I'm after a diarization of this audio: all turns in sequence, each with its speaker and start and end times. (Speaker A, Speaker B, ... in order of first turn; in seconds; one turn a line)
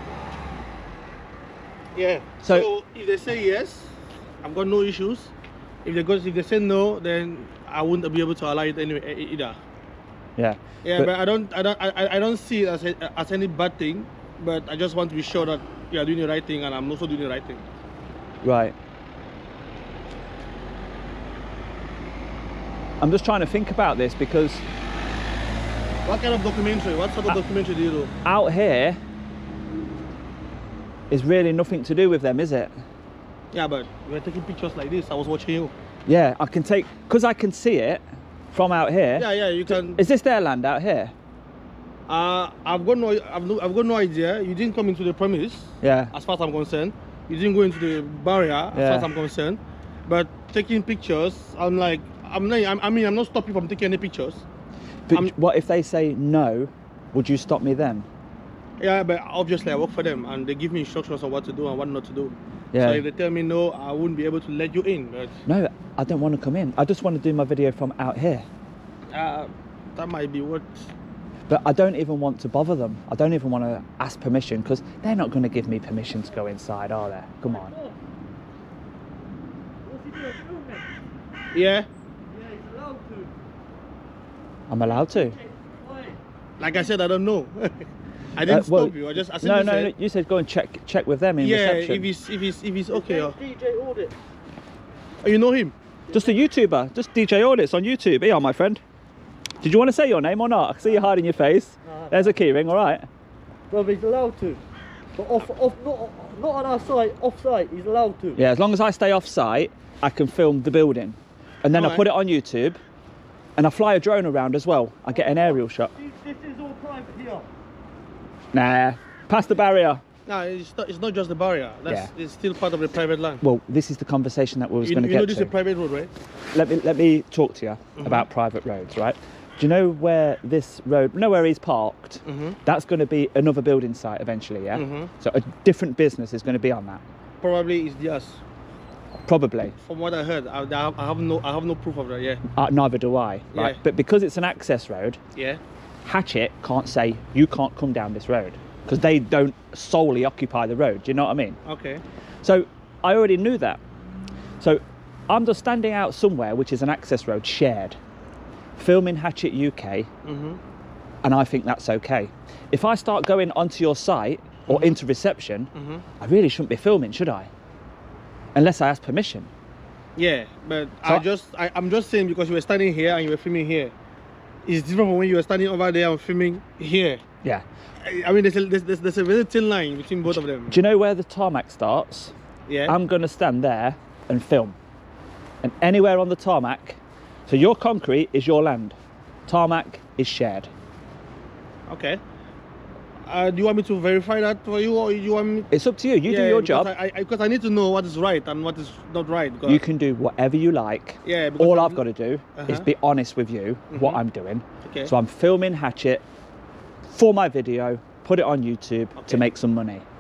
Speaker A: 1.9-5.3
Speaker B: 2.4-2.7
Speaker A: 5.8-9.6
Speaker B: 10.4-11.1
Speaker A: 10.8-17.6
Speaker B: 18.4-18.8
Speaker B: 23.0-24.6
Speaker A: 26.1-28.1
Speaker B: 28.2-29.0
Speaker B: 31.1-32.8
Speaker A: 33.5-35.7
Speaker B: 36.1-41.1
Speaker A: 39.2-40.0
Speaker A: 42.1-54.5
Speaker B: 45.8-46.1
Speaker B: 48.7-49.1
Speaker B: 55.1-58.1
Speaker A: 58.8-65.4
Speaker B: 62.7-63.0
Speaker B: 65.5-68.5
Speaker A: 69.1-70.9
Speaker B: 71.5-77.8
Speaker C: 77.5-78.0
Speaker C: 79.8-80.9
Speaker A: 81.5-81.9
Speaker C: 82.3-83.3
Speaker B: 84.7-85.4
Speaker C: 84.8-86.2
Speaker A: 86.6-89.9
Speaker B: 88.4-92.1
Speaker A: 91.4-93.4
Speaker C: 92.9-94.1
Speaker A: 95.2-95.7
Speaker C: 96.1-96.4
Speaker B: 96.1-98.8
Speaker B: 99.6-103.1
Speaker C: 101.8-102.3
Speaker C: 103.7-104.6
Speaker C: 105.2-108.4
Speaker B: 108.3-112.8
Speaker A: 111.7-112.0
Speaker B: 113.6-115.9
Speaker C: 115.1-117.5
Speaker B: 118.5-120.0
Speaker A: 120.3-123.4
Speaker B: 121.9-122.1
Speaker B: 123.4-125.5
Speaker A: 124.8-126.1
Speaker B: 126.5-137.0
Speaker A: 128.0-128.3
Speaker A: 132.3-132.6
Speaker A: 134.7-135.1
Speaker A: 137.4-138.4
Speaker B: 139.3-139.8
Speaker A: 139.8-142.4
Speaker B: 142.5-145.2
Speaker A: 143.5-143.8
Speaker B: 146.0-151.6
Speaker A: 151.7-152.0
Speaker B: 152.4-153.8
Speaker B: 154.6-158.0
Speaker B: 158.8-160.1
Speaker A: 160.2-160.6
Speaker B: 161.2-165.7
Speaker A: 164.7-165.0
Speaker A: 165.8-166.0
Speaker B: 166.2-167.5
Speaker B: 168.6-169.5
Speaker A: 170.2-173.9
Speaker A: 174.7-177.2
Speaker A: 178.0-180.8
Speaker B: 180.3-182.3
Speaker A: 182.7-182.9
Speaker B: 182.9-184.8
Speaker B: 185.6-190.7
Speaker A: 191.9-192.2
Speaker A: 193.3-195.7
Speaker B: 195.7-196.9
Speaker A: 196.2-199.8
Speaker B: 199.7-206.2
Speaker A: 201.2-202.0
Speaker A: 202.6-202.9
Speaker A: 203.9-204.2
Speaker A: 204.8-205.1
Speaker B: 207.1-210.1
Speaker A: 209.2-209.5